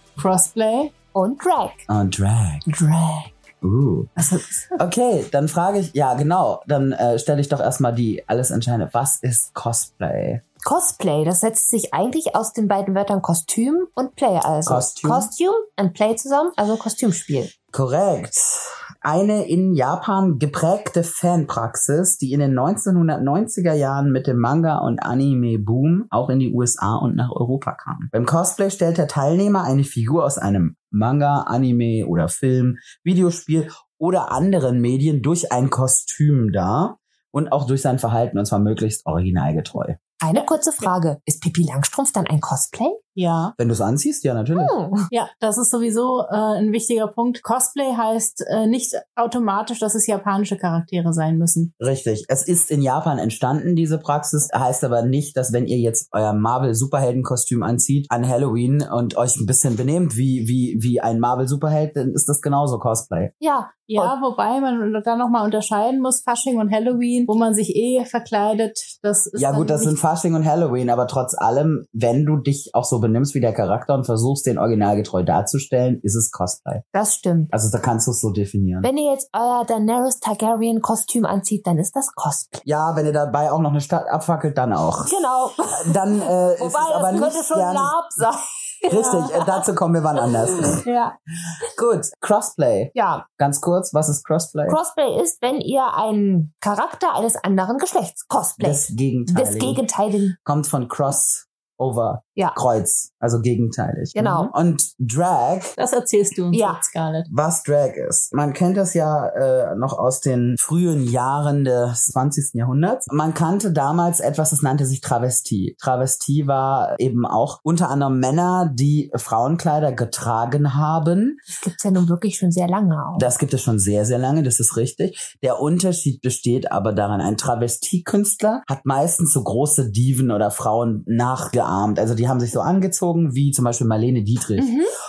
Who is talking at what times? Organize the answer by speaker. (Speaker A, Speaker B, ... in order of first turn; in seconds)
Speaker A: 0.2-0.9, 40.4-40.9, 43.2-43.5, 45.1-51.7, 63.9-70.0, 105.8-107.3
Speaker B: 1.1-1.9, 2.7-3.4, 4.2-4.6, 10.6-17.5, 40.2-43.0, 44.6-45.1, 63.4-64.1, 76.9-77.5, 78.8-82.7, 85.0-89.6, 90.5-91.1, 92.9-93.2, 94.7-100.3, 104.2-104.5, 106.5-106.8, 121.5-123.3, 134.6-134.9
Speaker C: 1.9-2.6, 3.6-10.4, 14.7-15.3, 17.7-40.0, 43.6-44.7, 51.8-63.3, 69.4-76.8, 77.5-78.9, 82.7-85.2, 85.7-88.0, 88.9-90.8, 91.8-94.8, 98.6-99.8, 100.5-105.8, 107.3-121.4, 123.2-134.7